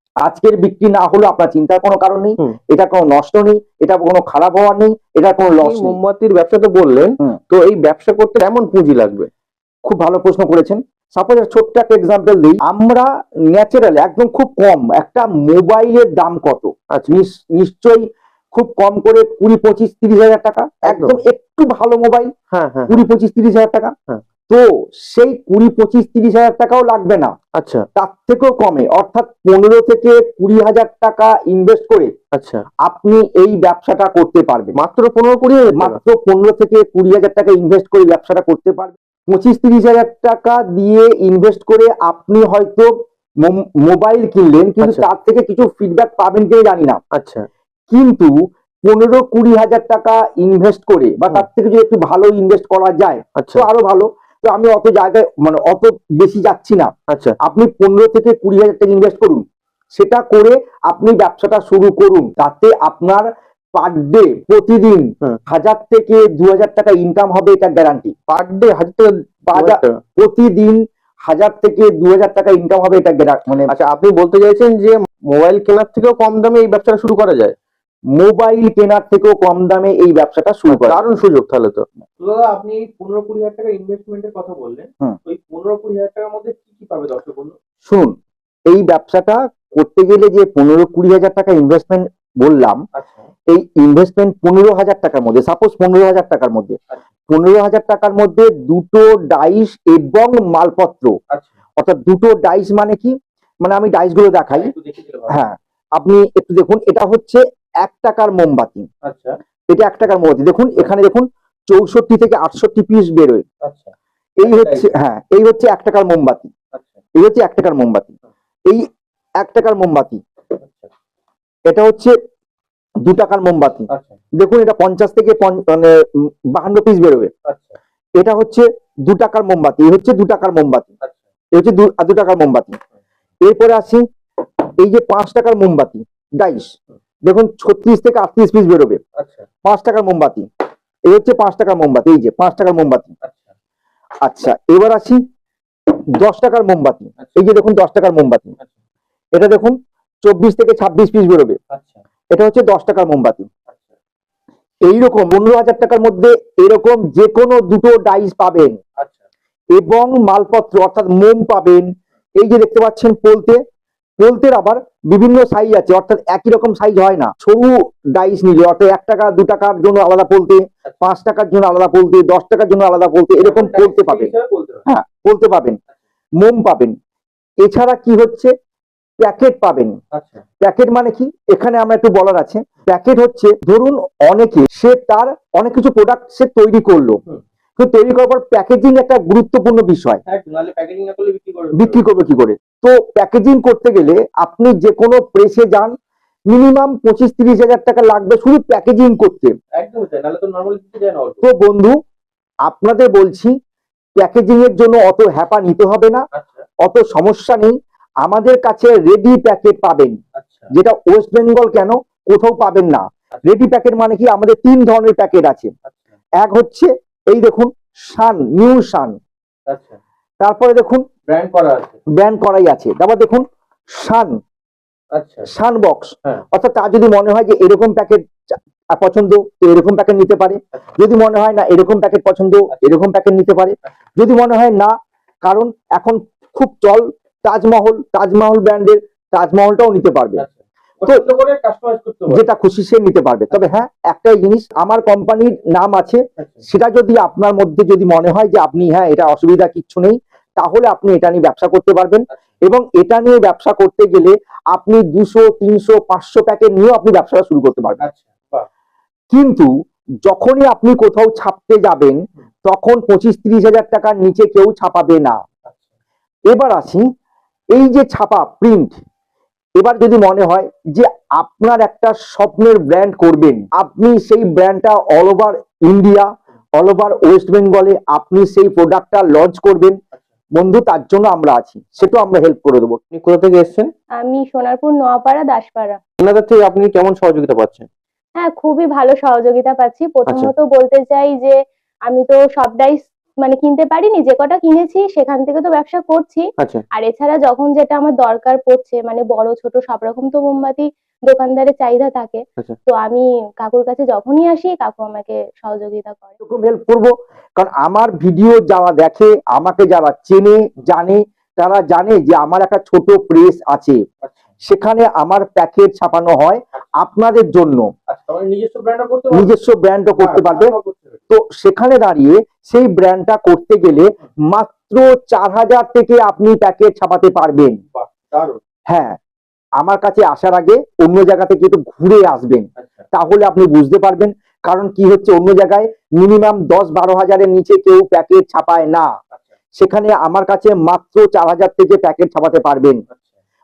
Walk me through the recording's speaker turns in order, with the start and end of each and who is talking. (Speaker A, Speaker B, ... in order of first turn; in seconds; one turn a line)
Speaker A: 0.2-6.0
Speaker B: 5.6-9.3
Speaker A: 9.9-22.3
Speaker B: 20.9-21.2
Speaker B: 22.5-23.1
Speaker A: 22.9-23.9
Speaker A: 24.5-27.3
Speaker B: 27.6-27.9
Speaker A: 28.0-32.1
Speaker B: 32.4-32.7
Speaker A: 32.9-34.8
Speaker B: 34.8-36.0
Speaker A: 35.8-42.9
Speaker A: 43.5-47.0
Speaker B: 44.8-45.1
Speaker B: 47.1-47.5
Speaker A: 47.9-48.3
Speaker A: 48.9-56.9
Speaker B: 53.4-53.7
Speaker B: 57.1-57.4
Speaker A: 57.4-59.4
Speaker A: 60.0-68.2
Speaker B: 68.3-70.0
Speaker A: 69.5-73.7
Speaker B: 73.7-77.5
Speaker A: 78.2-81.0
Speaker B: 80.7-87.6
Speaker A: 87.9-88.1
Speaker A: 88.7-92.8
Speaker B: 93.0-93.3
Speaker A: 93.5-96.8
Speaker A: 97.3-101.1
Speaker A: 101.8-104.7
Speaker B: 104.5-105.4
Speaker A: 105.3-108.9
Speaker B: 109.1-109.4
Speaker A: 109.7-113.5
Speaker B: 113.6-113.9
Speaker A: 114.4-116.5
Speaker B: 114.5-114.9
Speaker A: 117.2-118.1
Speaker A: 119.4-120.2
Speaker B: 120.6-120.9
Speaker A: 121.7-122.1
Speaker A: 123.1-126.0
Speaker B: 123.9-124.2
Speaker A: 126.5-127.3
Speaker B: 127.5-127.8
Speaker A: 128.2-130.9
Speaker A: 131.6-132.8
Speaker A: 133.5-134.0
Speaker A: 134.8-136.7
Speaker A: 137.3-139.0
Speaker B: 139.2-139.5
Speaker A: 139.6-140.5
Speaker A: 141.1-143.1
Speaker B: 143.2-143.5
Speaker A: 144.2-145.2
Speaker A: 146.1-148.6
Speaker A: 149.3-151.6
Speaker B: 151.7-152.0
Speaker A: 152.3-153.5
Speaker A: 154.9-158.8
Speaker A: 159.8-163.6
Speaker A: 164.2-174.3
Speaker B: 173.4-174.8
Speaker A: 174.9-175.8
Speaker A: 176.4-176.9
Speaker A: 177.6-178.5
Speaker A: 179.2-180.0
Speaker B: 180.1-180.4
Speaker A: 180.6-187.2
Speaker A: 187.8-190.2
Speaker B: 190.3-192.0
Speaker A: 191.8-195.9
Speaker A: 196.5-199.6
Speaker B: 199.8-201.4
Speaker A: 201.4-201.9
Speaker A: 202.7-203.5
Speaker A: 204.2-206.2
Speaker B: 206.3-206.6
Speaker A: 206.8-210.2
Speaker B: 210.4-210.7
Speaker A: 210.7-215.7
Speaker A: 216.4-219.2
Speaker B: 219.7-220.0
Speaker A: 220.4-221.0
Speaker B: 221.3-222.0
Speaker A: 222.2-223.4
Speaker A: 223.9-224.4
Speaker B: 225.2-225.5
Speaker A: 225.5-228.2
Speaker A: 228.9-234.9
Speaker A: 235.5-240.4
Speaker B: 240.4-242.4
Speaker A: 242.3-258.0
Speaker B: 246.4-246.6
Speaker B: 258.0-258.7
Speaker A: 259.3-259.7
Speaker A: 260.3-265.4
Speaker A: 266.5-267.0
Speaker A: 267.8-268.9
Speaker A: 269.8-280.0
Speaker A: 280.6-283.0
Speaker B: 283.1-283.9
Speaker C: 284.2-286.0
Speaker B: 286.2-287.9
Speaker C: 288.4-306.3
Speaker B: 290.3-290.5
Speaker A: 306.4-314.0
Speaker A: 314.6-317.9
Speaker B: 318.1-319.5
Speaker A: 319.3-320.7
Speaker B: 320.2-321.2
Speaker A: 321.3-327.8
Speaker B: 327.9-328.6
Speaker A: 328.9-329.2
Speaker A: 329.8-339.1
Speaker B: 332.8-333.1
Speaker A: 339.8-343.0